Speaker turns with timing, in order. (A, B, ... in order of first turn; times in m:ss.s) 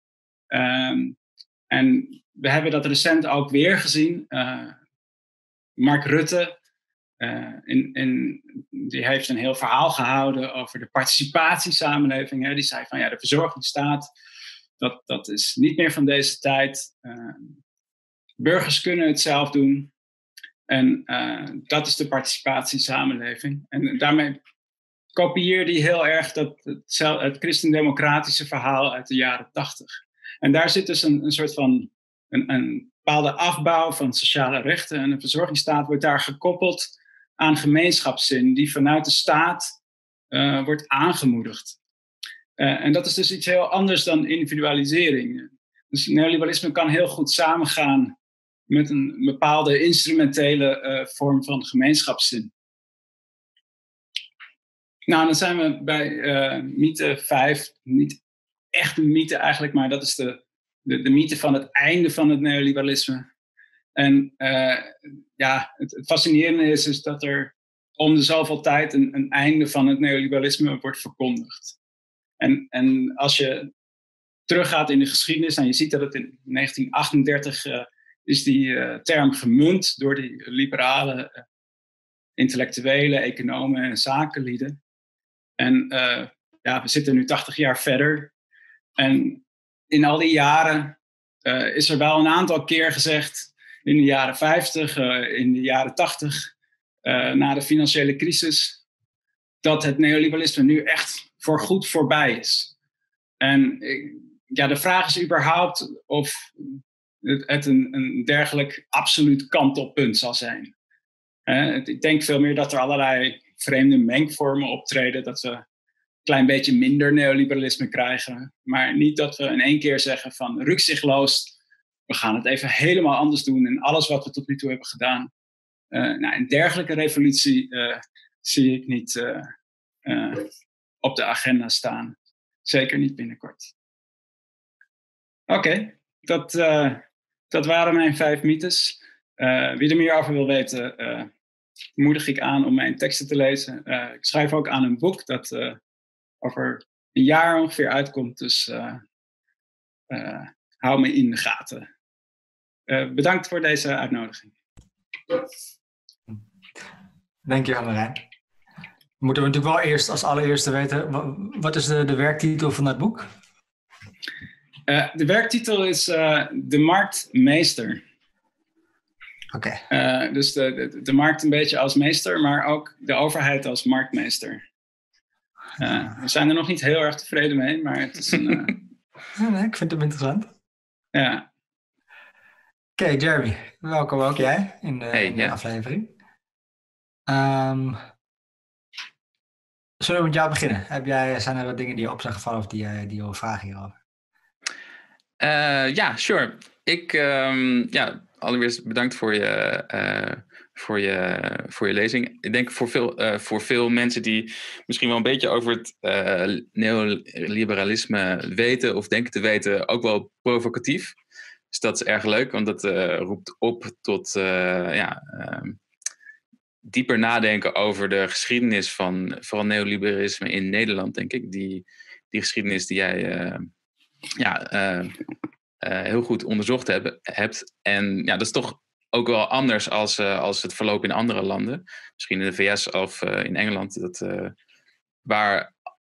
0:00.5-0:01.2 A
0:01.7-0:04.8 A
0:05.8-0:06.5 A
0:07.2-0:14.0 A
0:14.8-0:17.6 A
0:18.4-0:19.9 A
0:20.7-0:24.4 A
0:25.2-0:39.7 A
0:40.3-0:41.8 A
0:42.6-0:48.2 A
0:48.7-0:52.5 A
0:55.1-0:58.2 A
0:58.7-1:03.2 A
1:04.0-1:11.8 A
1:12.4-1:13.7 A
1:14.5-1:21.4 A
1:22.4-1:24.8 A
1:25.6-1:28.3 A
1:29.0-1:36.5 A
1:37.0-1:38.8 A
1:39.6-1:42.7 A
1:43.4-1:50.7 A
1:51.5-1:55.6 A
1:56.2-2:01.5 A
2:02.1-2:05.3 A
2:05.9-2:09.5 A
2:10.1-2:10.5 A
2:11.0-2:13.7 A
2:15.5-2:21.3 A
2:22.0-2:25.8 A
2:26.4-2:29.0 A
2:30.1-2:31.9 A
2:32.9-2:34.5 A
2:37.5-2:38.2 B
2:39.2-2:43.3 B
2:44.9-2:48.0 A
2:49.5-2:49.8 B
2:49.9-2:54.6 A
2:55.8-2:58.8 A
2:59.4-3:00.5 B
3:01.2-3:01.4 A
3:03.0-3:06.1 B
3:05.1-3:05.5 C
3:07.3-3:08.0 B
3:10.0-3:14.0 B
3:15.4-3:31.2 C
3:31.7-3:35.8 C
3:36.8-3:43.7 C
3:44.4-3:45.2 C
3:45.8-3:54.5 C
3:55.2-3:55.7 C